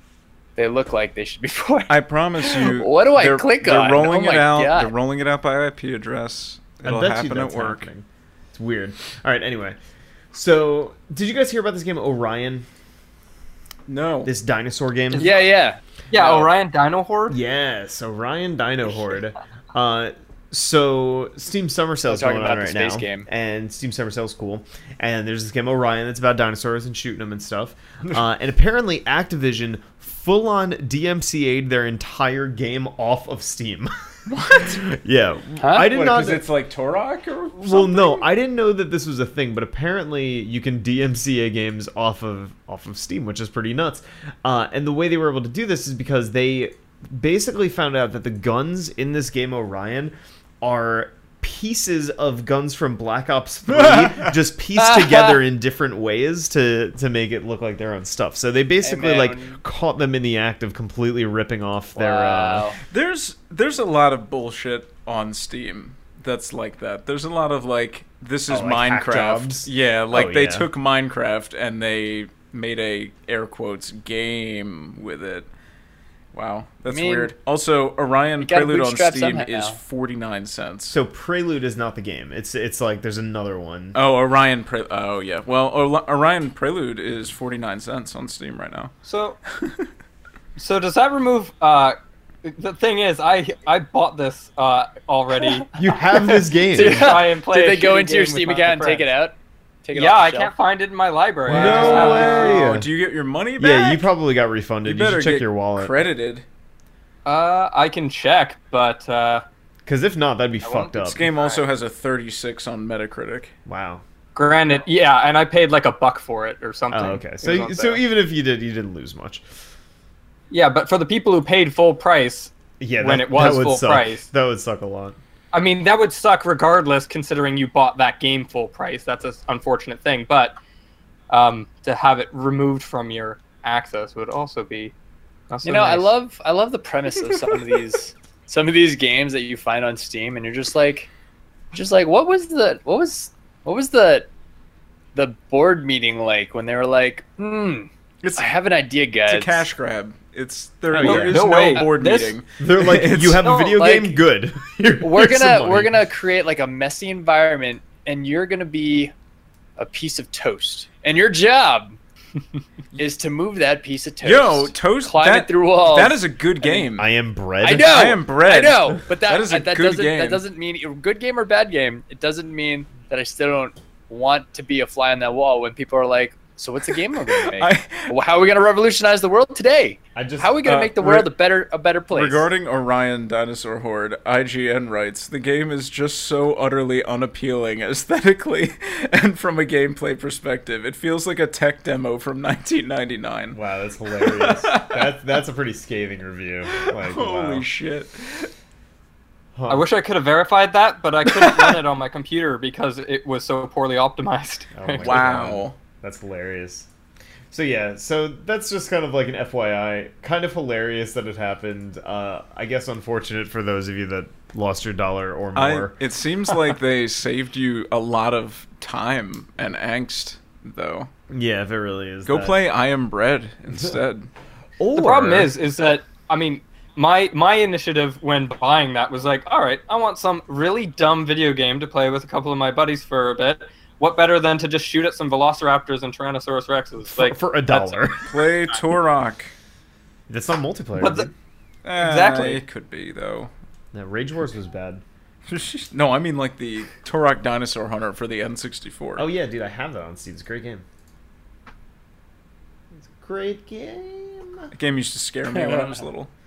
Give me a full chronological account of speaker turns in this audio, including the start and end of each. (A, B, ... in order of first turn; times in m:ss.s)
0:00.6-0:04.9 A
0:01.9-0:07.9 B
0:06.8-0:09.8 C
0:10.3-0:12.6 C
0:13.9-0:14.3 B
0:14.2-0:15.3 C
0:15.2-0:15.4 D
0:15.2-0:15.8 A
0:16.1-0:17.4 D
0:16.2-0:16.5 B
0:17.3-0:33.9 C
0:22.0-0:23.3 A
0:34.3-0:34.8 B
0:34.5-0:36.4 C
0:35.6-0:35.9 A
0:35.9-0:38.3 B
0:37.5-1:02.7 C
0:53.7-0:54.3 B
0:54.8-0:55.4 A
0:58.8-0:59.6 A
1:02.0-1:02.8 A
1:02.9-1:15.5 B
1:08.5-1:10.7 C
1:16.3-1:21.0 B
1:16.9-1:17.3 A
1:18.4-1:19.8 A
1:20.9-1:24.0 C
1:23.9-1:28.9 B
1:29.0-1:29.4 D
1:30.6-1:35.7 D
1:35.7-1:37.2 C
1:36.7-1:40.5 A
1:36.7-1:39.1 D
1:39.9-1:42.7 D
1:41.4-1:44.0 B
1:41.5-1:42.9 C
1:43.6-1:46.0 C
1:44.8-1:46.4 B
1:47.2-1:49.4 D
1:49.8-1:51.3 C
1:50.6-1:51.6 D
1:51.0-1:53.5 B
1:53.6-1:54.0 C
1:54.3-1:58.0 D
1:56.9-1:59.4 C
2:00.5-2:04.2 D
2:02.8-2:05.2 C
2:05.5-2:10.6 D
2:11.3-2:14.9 D
2:15.5-2:16.1 D
2:15.6-2:21.1 A
2:21.7-2:24.3 A
2:25.1-2:29.6 A
2:28.2-2:28.5 B
2:29.3-2:33.5 B
2:30.9-2:31.6 C
2:31.0-2:32.4 D
2:32.6-2:36.0 C
2:33.4-2:33.8 D
2:33.7-2:34.2 A
2:35.0-2:39.1 A
2:39.8-2:42.0 A
2:43.0-2:46.8 A
2:44.2-2:47.1 B
2:47.0-2:48.0 C
2:47.6-3:02.4 A
2:47.7-2:50.4 B
2:57.2-2:58.1 B
3:00.1-3:00.6 C
3:00.6-3:01.3 B
3:02.1-3:13.6 B
3:13.5-3:17.7 C
3:14.2-3:15.1 B
3:16.7-3:18.5 B
3:19.5-3:19.9 C
3:19.7-3:25.2 D
3:21.2-3:21.8 B
3:24.7-3:26.9 C
3:25.0-3:25.8 B
3:27.5-3:35.9 C
3:35.5-3:41.1 B
3:41.3-3:42.6 C
3:42.2-3:44.3 B
3:44.8-3:45.5 C
3:45.0-3:57.4 D
3:57.0-3:58.3 C
3:57.8-3:59.5 B
4:00.3-4:01.3 C
4:01.0-4:01.3 D
4:01.8-4:03.5 B
4:02.0-4:02.6 D
4:03.9-4:05.0 C
4:05.5-4:09.3 B
4:09.2-4:10.8 C
4:12.9-4:14.7 C
4:14.7-4:16.3 B